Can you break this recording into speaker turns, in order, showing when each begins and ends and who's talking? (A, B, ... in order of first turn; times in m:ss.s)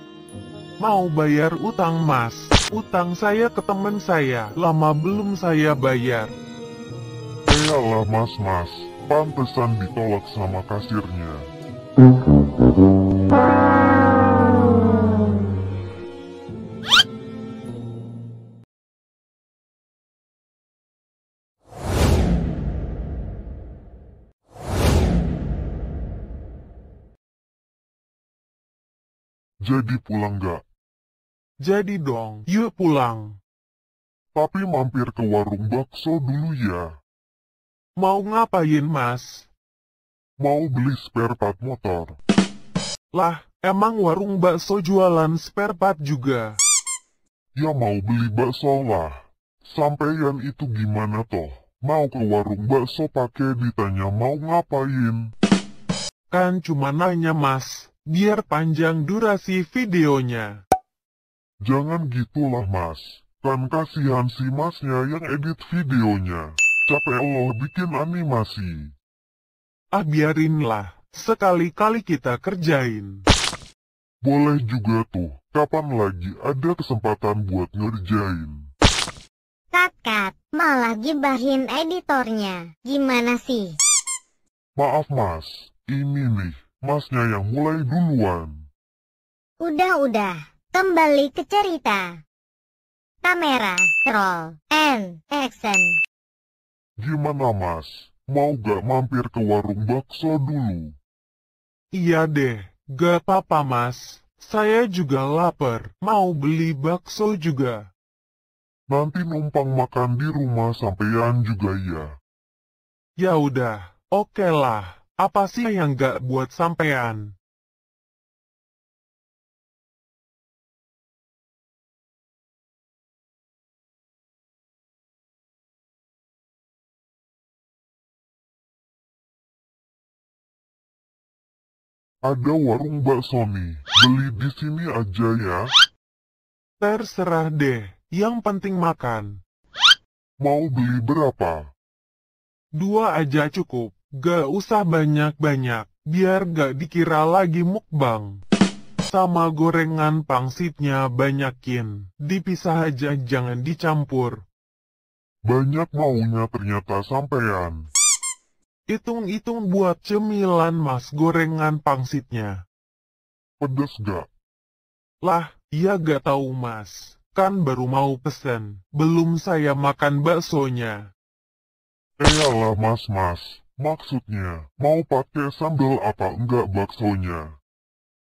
0:00.8-0:06.3 A
0:07.5-0:11.5 B
0:29.6-0:30.6 B
0:31.6-0:33.4 A
0:34.3-0:36.9 B
0:38.0-0:39.5 A
0:40.4-0:42.2 B
0:43.1-0:46.6 A
0:47.6-0:55.3 B
0:56.3-1:00.6 A
1:01.6-1:08.9 B
1:09.9-1:13.2 A
1:14.2-1:18.6 B
1:19.7-1:23.8 C
1:24.8-1:28.6 B
1:29.6-1:32.2 C
1:33.2-1:36.0 C
1:37.0-1:40.9 B
1:41.9-1:47.9 A
1:48.9-1:52.1 B
1:53.2-1:57.3 A
2:12.2-2:15.7 B
2:16.8-2:19.4 A
2:20.4-2:21.6 B
2:22.7-2:28.4 A
2:29.1-2:34.4 A
2:35.4-2:37.8 B
2:38.9-2:42.6 A
2:43.6-2:44.3 B
2:45.2-2:51.1 A
2:52.2-2:57.5 B